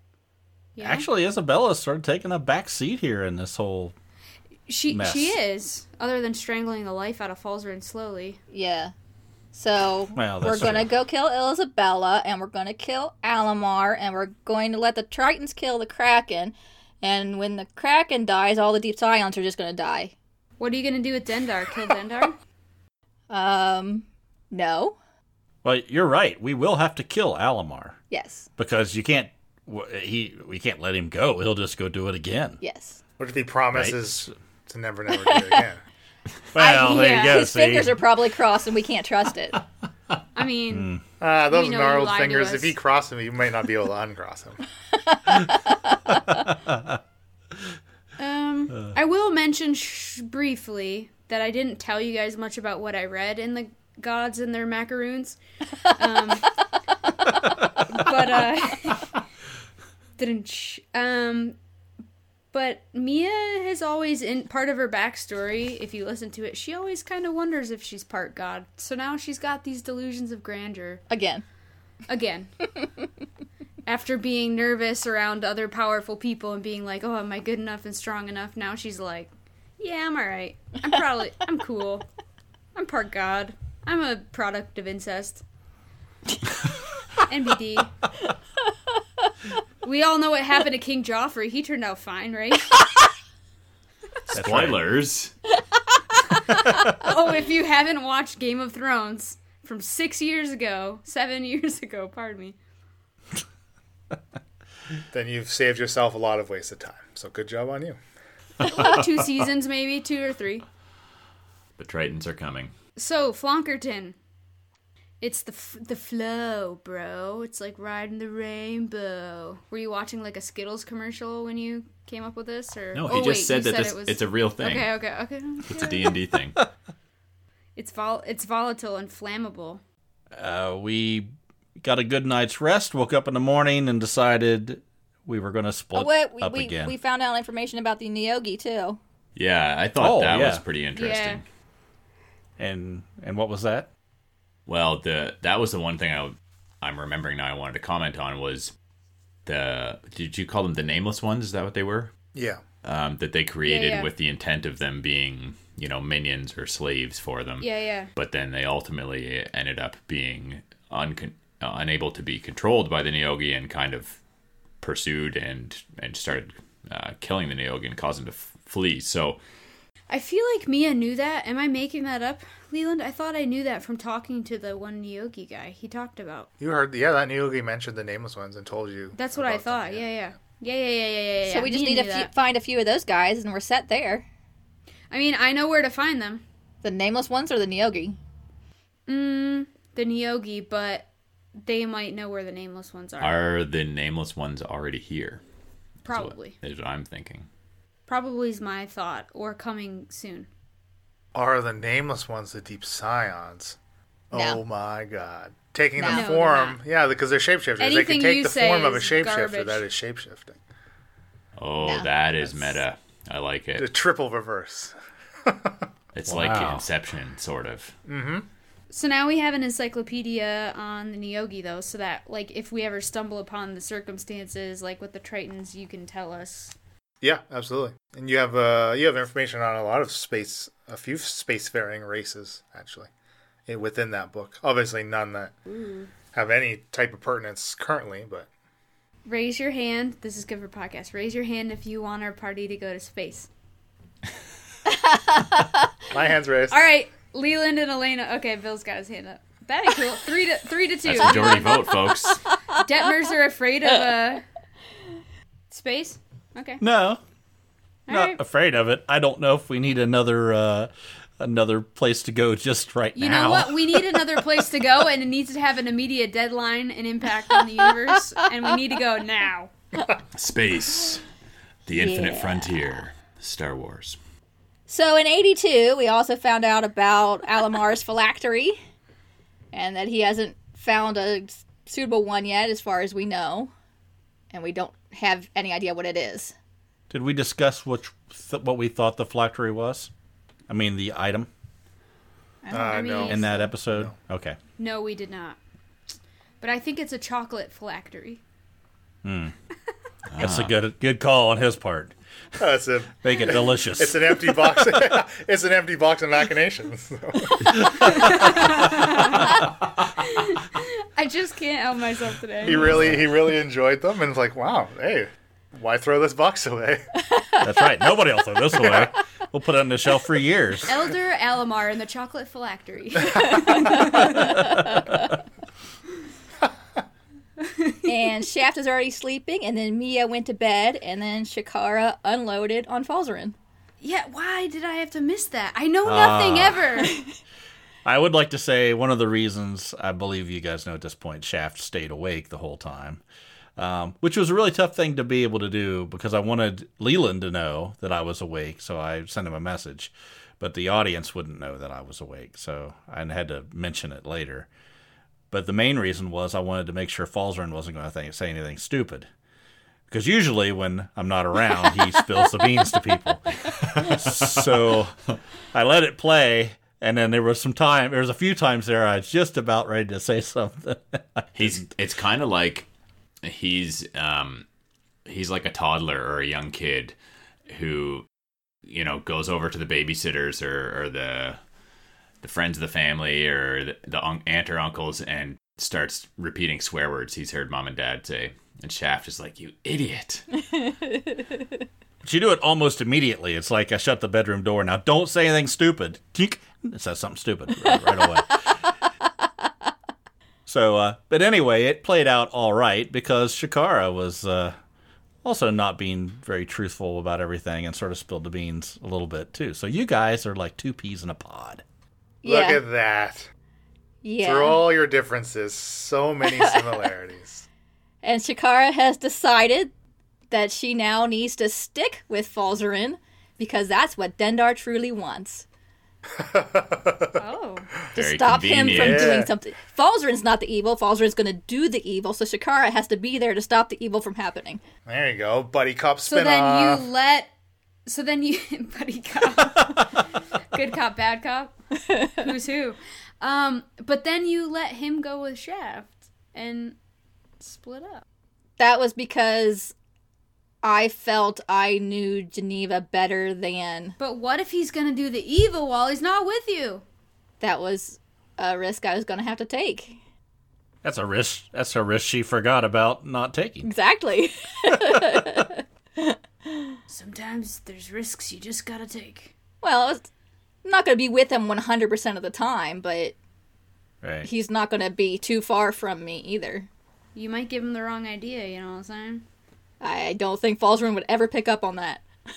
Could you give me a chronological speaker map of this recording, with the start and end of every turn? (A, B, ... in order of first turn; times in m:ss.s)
0:00.8-0:01.1 A
0:00.8-0:04.0 B
0:04.7-0:08.4 A
0:04.9-0:05.4 B
0:08.5-0:08.9 C
0:09.5-0:20.1 C
0:10.1-0:10.9 B
0:20.6-0:22.4 A
0:23.3-0:25.0 C
0:25.6-0:28.0 B
0:28.1-0:28.5 C
0:28.6-0:32.6 B
0:32.6-0:33.0 C
0:33.2-0:35.8 D
0:33.7-0:34.3 B
0:35.2-0:35.5 C
0:36.5-0:38.0 B
0:36.6-0:39.6 C
0:36.8-0:37.4 A
0:40.4-0:40.9 A
0:40.7-0:41.0 B
0:41.2-0:44.6 D
0:41.5-0:42.7 A
0:45.1-0:45.9 C
0:46.5-0:47.0 B
0:48.2-0:56.5 A
0:57.8-0:59.1 A
1:00.2-1:01.6 A
1:02.5-1:11.0 A
1:11.1-1:11.4 C
1:12.1-1:12.5 A
1:13.9-1:22.1 A
1:22.8-1:25.4 A
1:27.3-1:27.9 A
1:29.8-1:32.8 A
1:34.3-1:35.3 E
1:34.3-1:34.8 B
1:36.5-1:42.6 A
1:45.1-1:48.0 D
1:48.6-1:50.6 A
1:51.8-1:52.7 E
1:53.0-1:54.2 A
1:55.2-2:06.1 A
2:03.0-2:04.9 E
2:05.6-2:06.6 E
2:07.8-2:09.8 A
2:10.4-2:16.9 B
2:16.0-2:19.0 C
2:19.4-2:21.4 E
2:20.0-2:20.6 B
2:21.0-2:21.4 A
2:22.6-2:23.9 B
2:24.7-2:28.7 E
2:29.5-2:32.1 E
2:32.4-2:32.6 D
2:32.8-2:44.2 E
2:33.7-2:34.1 A
2:37.6-2:38.1 A
2:44.8-2:49.4 E
2:50.1-2:56.5 A
2:56.6-3:00.1 D
2:59.2-3:02.3 A
3:01.5-3:04.2 C
3:05.1-3:06.4 A
3:06.8-3:08.2 C
3:09.1-3:13.4 A
3:13.2-3:15.4 E
3:16.1-3:16.6 A
3:16.1-3:17.5 E
3:18.1-3:20.5 A
3:21.3-3:23.8 D
3:24.3-3:30.6 D
3:24.3-3:24.6 C
3:26.0-3:26.3 C
3:26.1-3:26.8 A
3:27.8-3:29.8 A
3:31.6-3:33.9 E
3:31.8-3:32.8 C
3:33.8-3:34.9 D
3:35.4-3:35.9 D
3:36.2-3:38.0 E
3:36.3-3:36.9 B
3:38.1-3:38.5 D
3:38.9-3:46.8 A
3:47.2-3:53.1 D
3:53.7-3:55.5 D
3:55.7-3:56.1 A
3:56.3-3:58.5 D
3:59.3-4:03.5 A
4:04.9-4:05.7 C
4:06.1-4:06.8 D
4:06.7-4:11.9 A
4:11.0-4:12.4 E
4:12.7-4:14.4 A
4:15.7-4:16.8 A
4:16.8-4:17.2 B
4:18.1-4:18.4 A
4:18.1-4:24.6 B
4:23.2-4:29.7 A
4:30.3-4:31.2 E
4:31.9-4:34.2 E
4:31.9-4:33.0 C
4:34.9-4:38.8 C
4:39.7-4:43.7 C
4:44.5-4:46.5 C
4:47.1-4:50.1 B
4:50.7-4:51.5 B
4:52.7-4:53.7 A
4:52.7-4:53.2 C
4:52.7-4:54.1 D
4:53.2-4:54.6 B
4:54.8-4:55.6 A
4:56.6-4:58.4 A
4:59.2-4:59.5 B
5:00.3-5:00.7 E
5:00.4-5:02.1 B
5:02.6-5:09.1 D
5:03.2-5:05.2 B
5:07.8-5:08.7 B
5:08.0-5:13.1 A
5:12.6-5:17.2 D
5:17.6-5:20.9 B
5:18.8-5:19.1 D
5:20.9-5:24.8 A
5:23.6-5:25.2 C
5:24.6-5:25.2 B
5:27.6-5:28.3 A
5:28.1-5:33.6 C
5:34.0-5:37.2 A
5:36.0-5:36.8 B
5:38.0-5:43.2 B
5:43.8-5:54.7 B
5:55.5-5:59.3 B
6:00.1-6:05.2 B
6:05.7-6:11.8 B
6:11.6-6:12.9 E
6:13.4-6:14.6 E
6:15.3-6:17.2 E
6:17.7-6:18.3 E
6:18.9-6:21.6 E
6:22.4-6:30.5 E
6:30.7-6:31.7 C
6:32.2-6:38.6 B
6:40.7-6:44.8 B
6:45.4-6:51.8 B
6:52.4-6:52.8 C
6:52.4-6:53.5 D
6:54.2-6:54.9 C
6:54.4-6:57.6 D
6:56.4-6:57.1 C
6:58.2-6:59.9 C
7:00.5-7:05.6 C
7:06.4-7:07.4 D
7:07.4-7:07.9 A
7:08.2-7:14.8 C
7:08.2-7:09.4 E
7:08.8-7:09.5 D
7:15.1-7:17.0 D
7:16.3-7:17.5 A
7:18.1-7:20.1 A
7:20.7-7:27.0 A
7:27.6-7:28.2 A
7:28.8-7:29.9 C
7:30.8-7:34.2 C
7:34.2-7:37.0 A
7:37.6-7:40.2 C
7:41.0-7:43.9 B
7:43.8-7:47.0 C
7:44.9-7:45.6 B
7:47.1-7:49.5 A
7:49.8-7:50.3 C
7:50.8-7:53.4 C
7:54.2-7:54.5 B
7:54.4-7:56.9 C
7:57.4-7:59.4 A
8:00.0-8:02.2 C